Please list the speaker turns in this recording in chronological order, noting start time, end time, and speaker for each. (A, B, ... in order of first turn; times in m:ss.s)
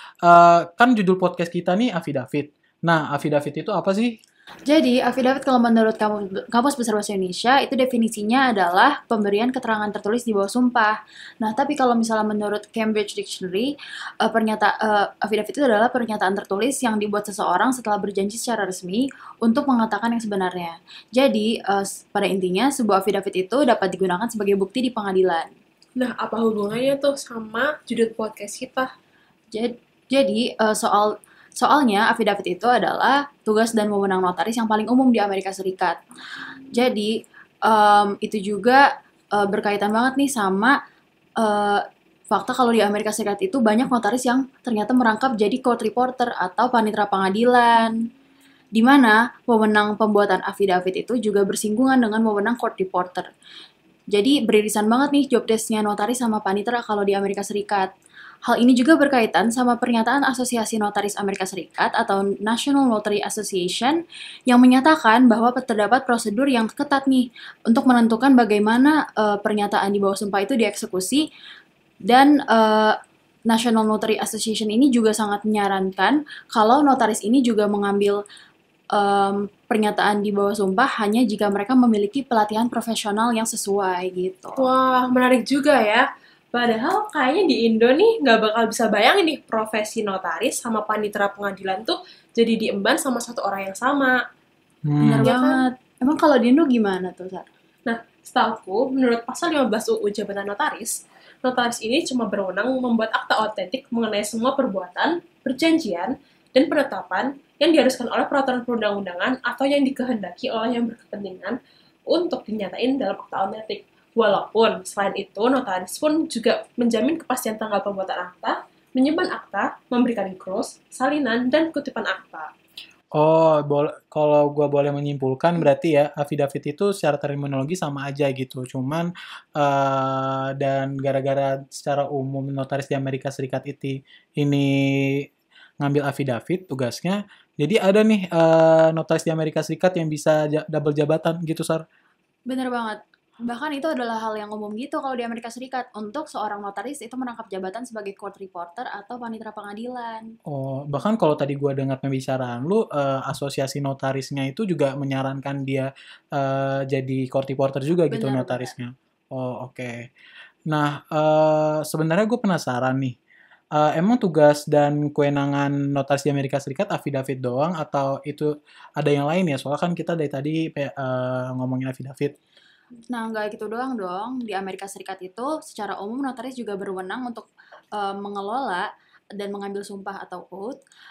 0:00.2-0:04.2 A
0:04.7-0:13.7 B
0:14.2-0:25.5 B
0:26.0-0:28.9 C
0:29.5-0:36.0 B
0:36.7-0:37.1 B
0:37.6-0:40.8 B
0:41.4-0:48.0 B
0:48.7-0:53.3 B
0:54.1-0:57.9 B
0:58.4-1:11.2 B
1:12.1-1:12.9 B
1:13.5-1:18.2 B
1:18.9-1:24.6 B
1:24.6-1:34.2 C
1:34.8-1:35.3 A
1:35.0-1:37.5 B
1:35.2-1:35.6 C
1:37.8-1:51.6 C
1:52.1-2:02.5 C
2:03.2-2:15.2 A
2:15.8-2:21.8 A
2:22.5-2:30.3 B
2:30.5-2:40.0 A
2:38.1-2:38.7 B
2:40.7-2:43.2 A
2:43.8-2:52.4 A
2:53.1-3:00.8 B